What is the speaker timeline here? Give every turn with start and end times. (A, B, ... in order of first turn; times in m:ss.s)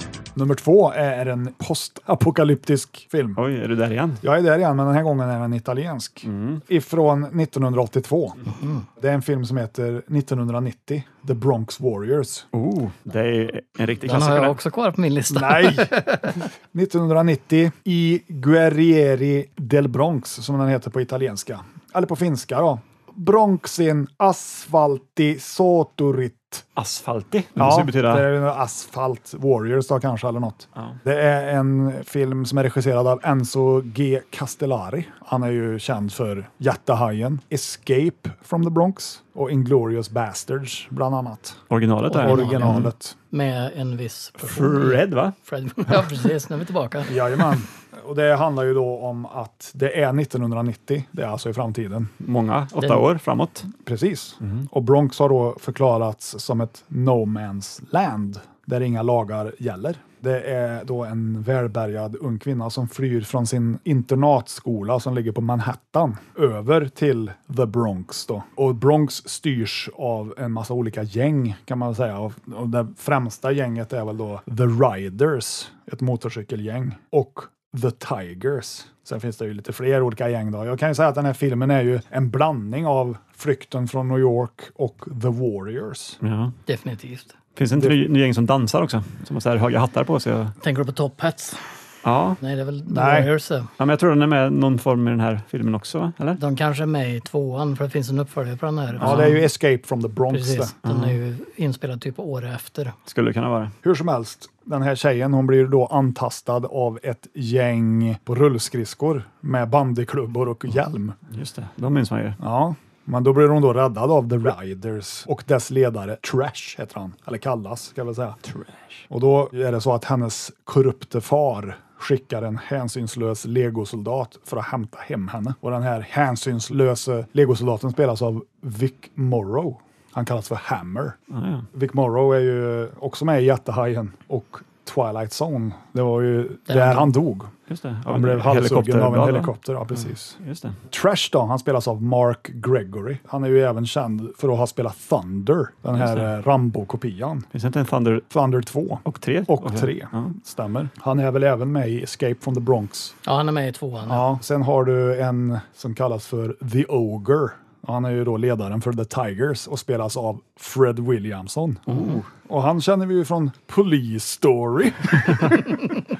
0:00.4-0:03.4 A
0:03.4-0:04.2 B
0:04.2-0:08.4 A
0:06.2-0:06.6 B
0:08.5-0:08.9 C
0:09.0-0:12.5 A
0:12.5-0:14.6 B
0:14.0-0:16.4 C
0:15.3-0:16.0 A
0:16.7-0:26.7 A
0:26.8-0:28.3 B
0:27.6-0:41.6 A
0:41.7-0:42.9 B
0:42.1-0:47.4 C
0:42.2-0:43.2 A
0:44.4-0:45.4 B
0:47.1-0:52.1 A
0:52.2-0:53.7 B
0:53.8-1:26.2 A
1:26.2-1:26.6 B
1:26.7-1:27.3 C
1:27.6-1:30.5 B
1:30.6-1:31.6 C
1:32.0-1:32.4 B
1:32.4-1:33.7 C
1:32.9-1:33.3 A
1:33.8-1:36.4 B
1:36.4-1:39.4 C
1:39.0-1:40.7 A
1:39.0-1:39.3 B
1:40.3-1:43.0 C
1:40.8-1:41.2 B
1:43.1-1:43.7 B
1:43.8-1:51.2 A
1:51.3-1:52.4 B
1:52.4-1:58.4 A
1:58.4-1:59.0 B
1:59.1-2:11.2 A
2:11.3-2:11.7 B
2:11.7-2:17.5 A
2:16.7-2:17.1 C
2:17.7-2:20.8 B
2:18.1-2:20.4 A
2:20.9-2:27.5 A
2:25.9-2:26.3 B
2:27.5-2:28.3 B
2:28.3-2:33.2 A
2:29.0-2:30.3 B
2:33.2-2:34.3 C
2:34.1-2:45.8 A
2:41.9-2:42.3 B